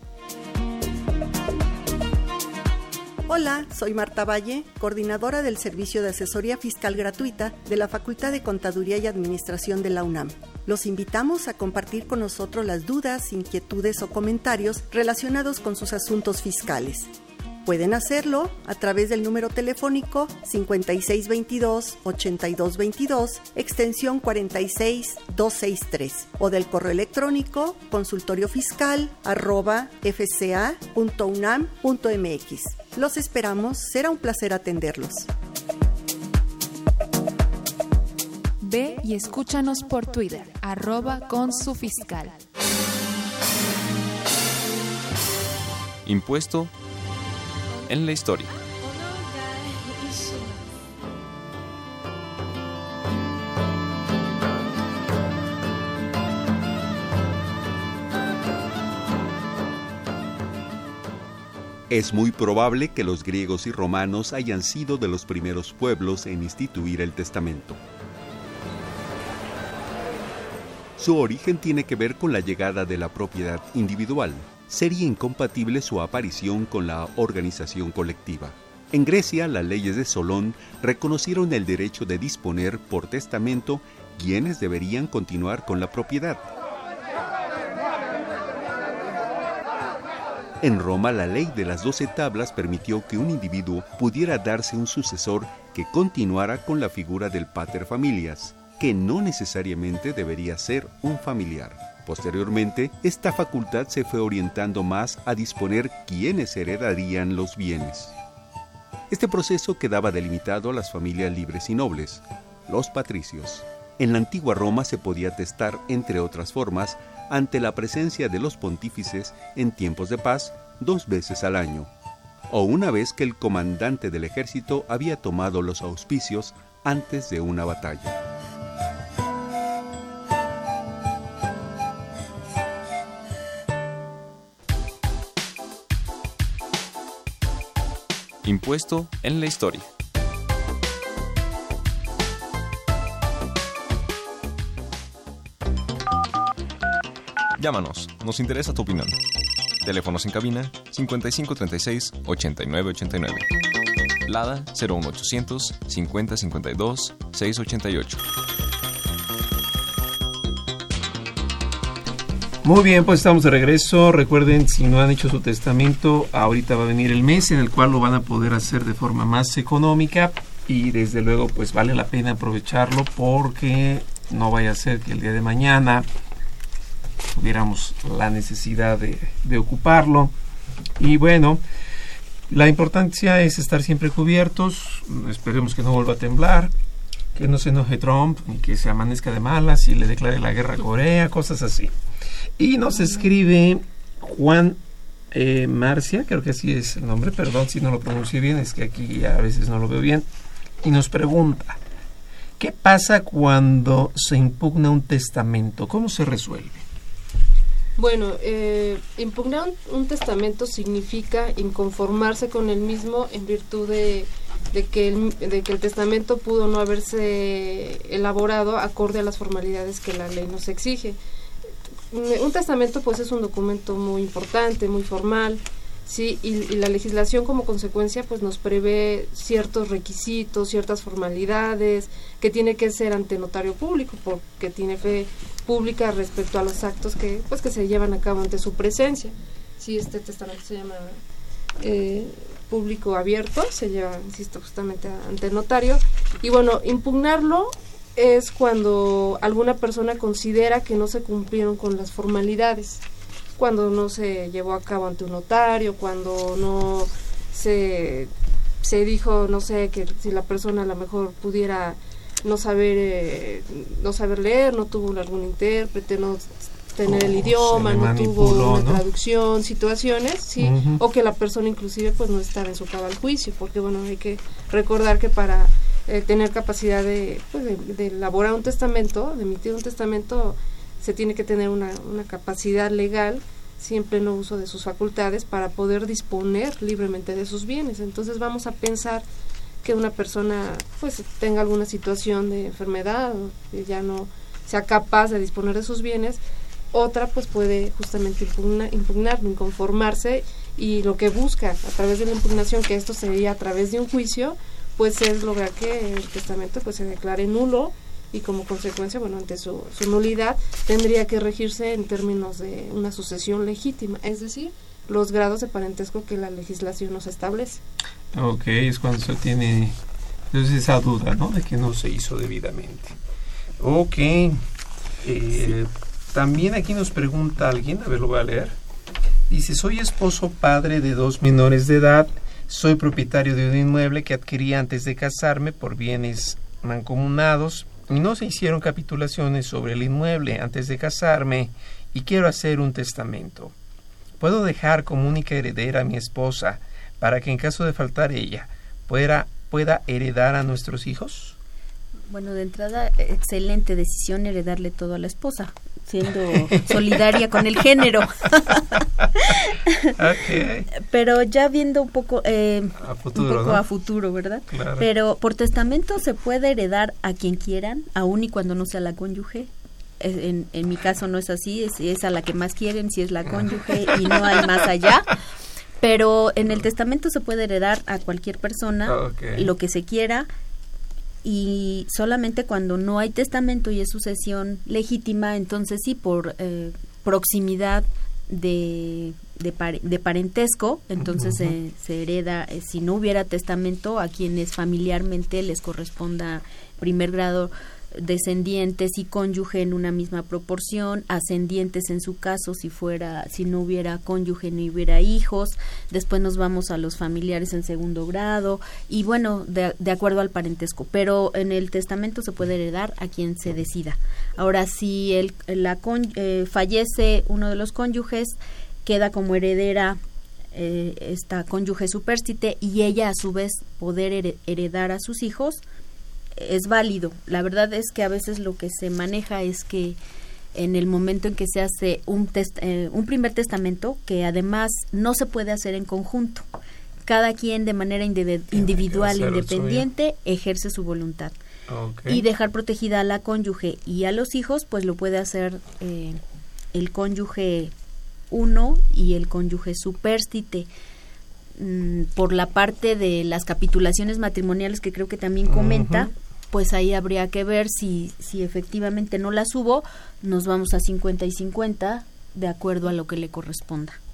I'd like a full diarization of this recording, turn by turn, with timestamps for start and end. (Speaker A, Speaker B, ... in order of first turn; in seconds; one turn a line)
Speaker A: 3.3-17.1
Speaker A: 17.6-35.3
Speaker B: 38.6-42.4
Speaker C: 46.0-46.7
Speaker C: 47.9-48.5
Speaker D: 61.9-67.8
Speaker D: 71.0-86.5
Speaker D: 90.6-108.2
Speaker D: 109.1-121.9
Speaker D: 122.5-128.2
Speaker C: 138.4-139.9
Speaker C: 147.6-149.2
Speaker C: 149.8-153.5
Speaker C: 154.3-158.2
Speaker E: 162.6-176.1
Speaker E: 177.3-180.3
Speaker E: 181.0-181.6
Speaker E: 182.5-186.7
Speaker E: 187.3-191.9
Speaker E: 192.6-194.8
Speaker E: 195.3-200.3
Speaker E: 200.8-201.8
Speaker E: 202.6-206.8
Speaker F: 208.0-221.2
Speaker F: 222.1-241.2
Speaker F: 241.8-253.0
Speaker F: 253.6-258.3
Speaker F: 258.8-289.2
Speaker E: 267.1-269.0
Speaker E: 270.6-271.0
Speaker F: 289.8-296.4
Speaker F: 296.9-317.8
Speaker E: 318.3-320.0
Speaker E: 320.5-323.2
Speaker E: 323.8-324.6
Speaker E: 325.2-328.8
Speaker E: 329.5-343.8
Speaker E: 344.4-351.6
Speaker G: 352.3-360.1
Speaker E: 356.5-357.1
Speaker E: 360.2-360.9
Speaker G: 361.0-375.4
Speaker E: 363.0-363.8
Speaker E: 364.7-365.1
Speaker E: 373.5-374.4
Speaker G: 376.0-380.5
Speaker E: 379.1-379.7
Speaker G: 381.4-420.2
Speaker E: 391.2-391.8
Speaker G: 420.7-425.8
Speaker G: 426.6-430.2
Speaker G: 430.8-436.7
Speaker G: 437.2-441.6
Speaker E: 438.7-440.1
Speaker E: 441.9-442.4
Speaker G: 442.3-446.4
Speaker G: 446.9-447.9
Speaker G: 448.5-450.9
Speaker G: 451.8-464.2
Speaker E: 455.6-456.3